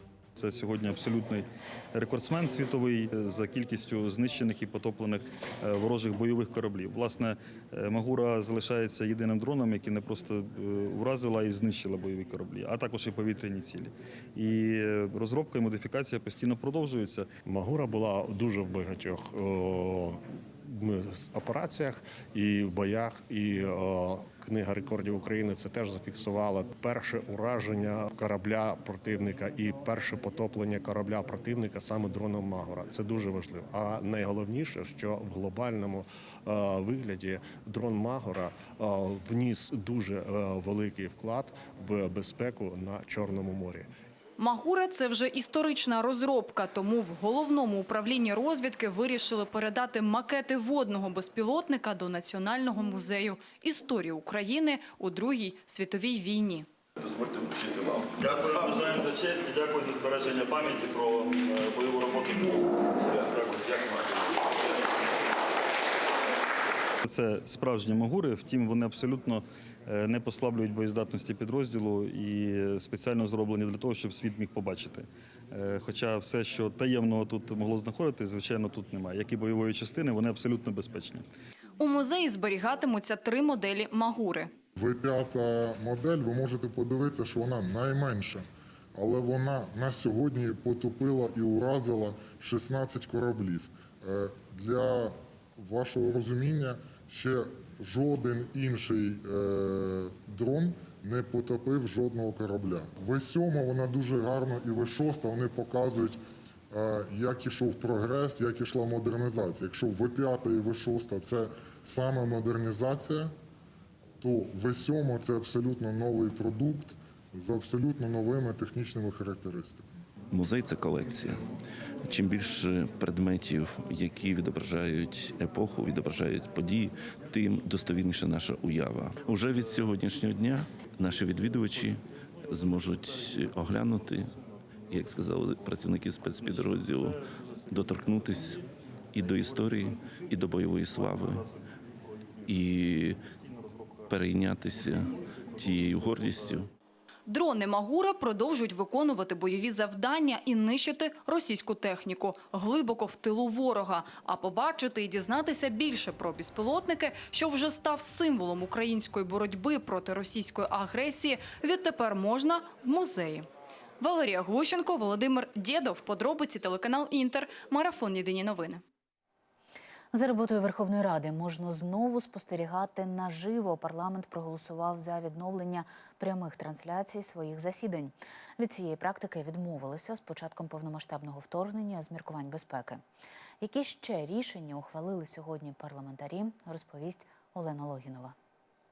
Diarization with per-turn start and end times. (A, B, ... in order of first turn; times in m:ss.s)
0:00.4-0:17.3 A
0:17.5-0:43.9 B
0:44.4-0:56.7 C
0:58.2-1:04.1 A
1:07.0-1:21.2 A
1:21.8-1:24.5 C
1:24.8-1:46.2 D
1:46.7-1:53.3 D
1:54.2-1:59.8 D
2:00.3-2:01.4 E
2:02.1-2:14.3 E
2:14.9-2:17.2 E
2:17.7-2:18.6 E
2:19.1-2:21.4 E
2:22.5-2:23.2 E
2:24.1-2:26.7 E
2:27.3-2:43.5 C
2:44.0-2:48.8 C
2:50.1-3:03.0 F
3:03.6-3:08.3 F